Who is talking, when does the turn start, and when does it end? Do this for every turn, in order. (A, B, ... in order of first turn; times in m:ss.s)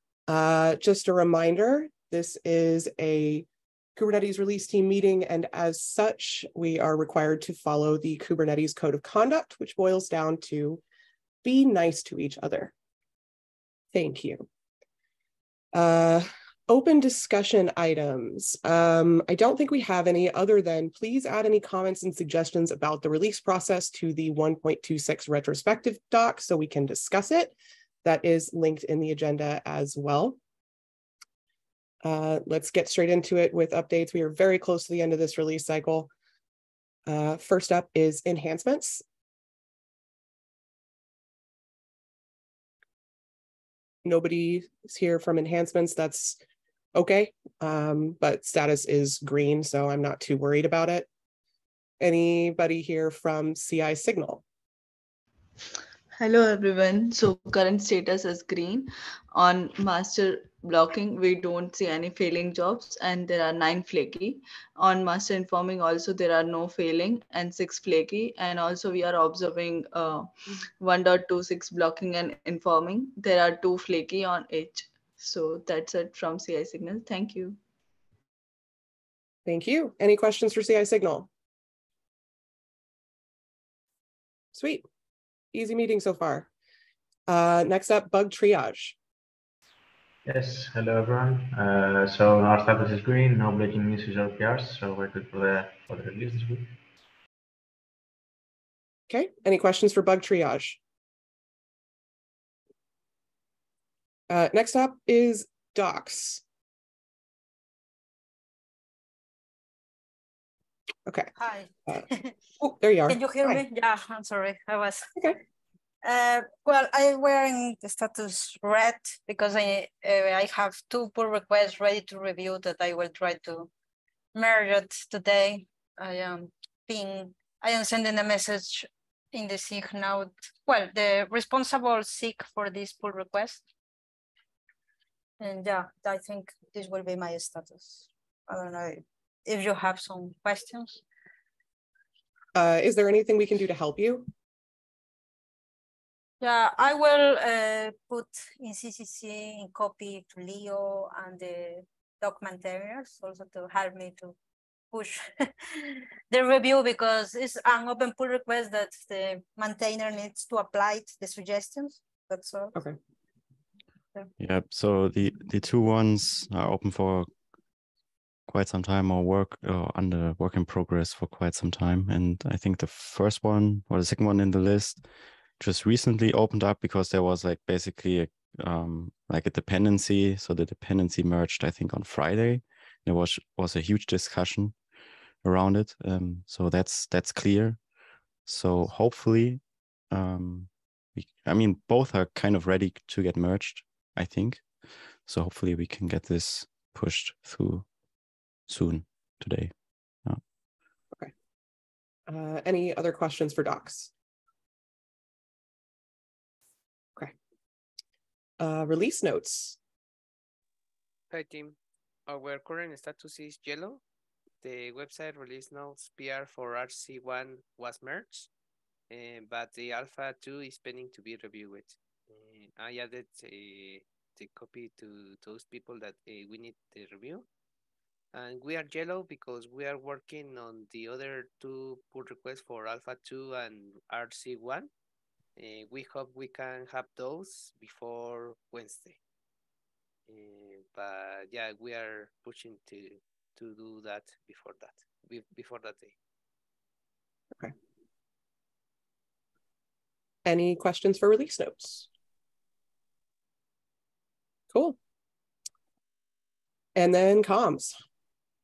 0:00.3-0:10.8 A
0:11.4-0:12.7 A
0:13.9-0:14.5 A
0:15.7-0:30.4 A
0:32.0-0:36.1 A
0:37.1-0:39.0 A
0:44.0-0:46.4 A
0:46.9-0:51.1 A
0:52.0-0:54.4 A
0:56.2-1:17.6 B
1:19.5-1:21.3 A
1:24.6-1:24.8 A
1:25.5-1:26.5 A
1:27.3-1:29.0 A
1:30.3-1:36.6 C
1:39.1-1:40.8 A
1:44.3-1:46.4 A
1:51.4-1:52.4 D
1:52.6-1:53.6 A
1:53.1-1:55.3 D
1:56.0-2:03.7 D
2:04.3-2:13.6 D
2:15.4-2:21.0 D
2:22.6-2:24.3 A
2:26.4-2:34.4 D
2:34.9-2:42.8 D
2:44.4-2:47.3 E
2:48.5-2:55.0 E
2:55.6-3:04.8 E
3:05.4-3:07.8 E
3:08.5-3:14.6 E
3:15.3-3:17.8 E
3:18.7-3:19.7 E
3:22.3-3:24.1 A
3:28.6-3:29.8 A
3:31.3-3:34.0 F
3:34.6-3:38.5 F
3:39.1-3:47.5 F
3:48.3-3:54.9 F
3:55.6-3:59.2 F
4:00.3-4:06.2 F
4:10.4-4:12.1 A
4:14.7-4:15.0 A
4:17.0-4:18.0 A